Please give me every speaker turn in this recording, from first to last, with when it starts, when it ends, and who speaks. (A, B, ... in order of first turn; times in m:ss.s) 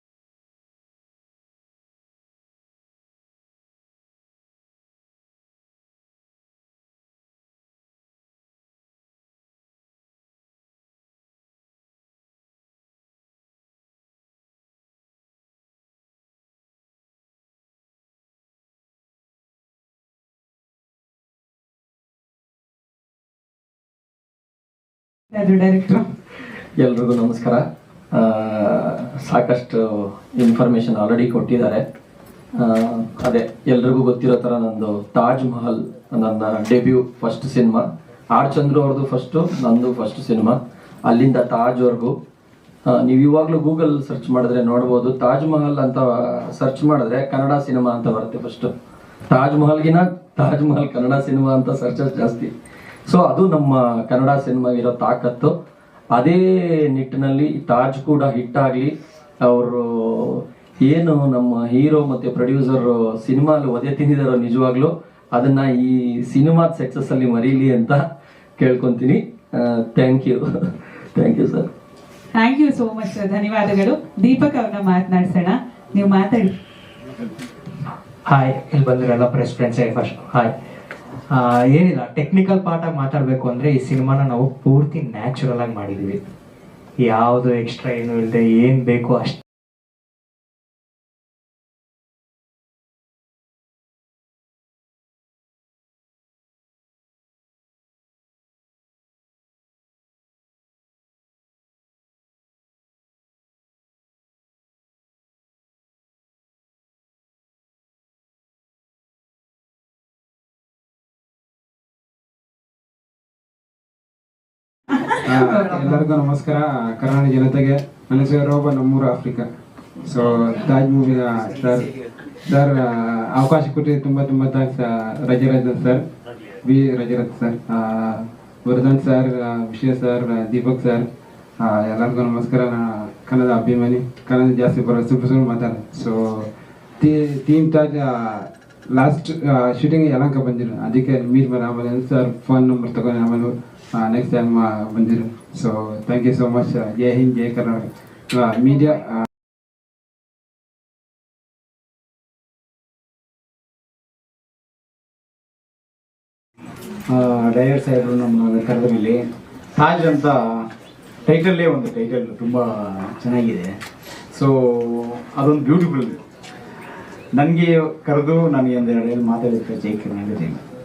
0:25.3-0:26.1 A
0:26.8-0:31.8 B
0:32.6-0:42.2 B
0:42.9-0:48.7 B
0:49.3-0:52.5 B
0:53.1-0:55.6 B
0:56.1-1:08.1 B
1:08.6-1:11.7 B
1:12.4-1:16.5 A
1:18.3-1:20.5 C
1:21.3-1:26.2 C
1:27.0-1:29.4 C
1:55.1-1:56.0 A
1:55.3-1:59.5 D
2:00.0-2:01.9 D
2:02.5-2:06.0 D
2:06.6-2:11.1 D
2:11.6-2:29.2 D
2:37.1-2:40.6 E
2:41.3-2:43.8 E
2:44.3-2:46.2 E
2:47.4-2:50.6 E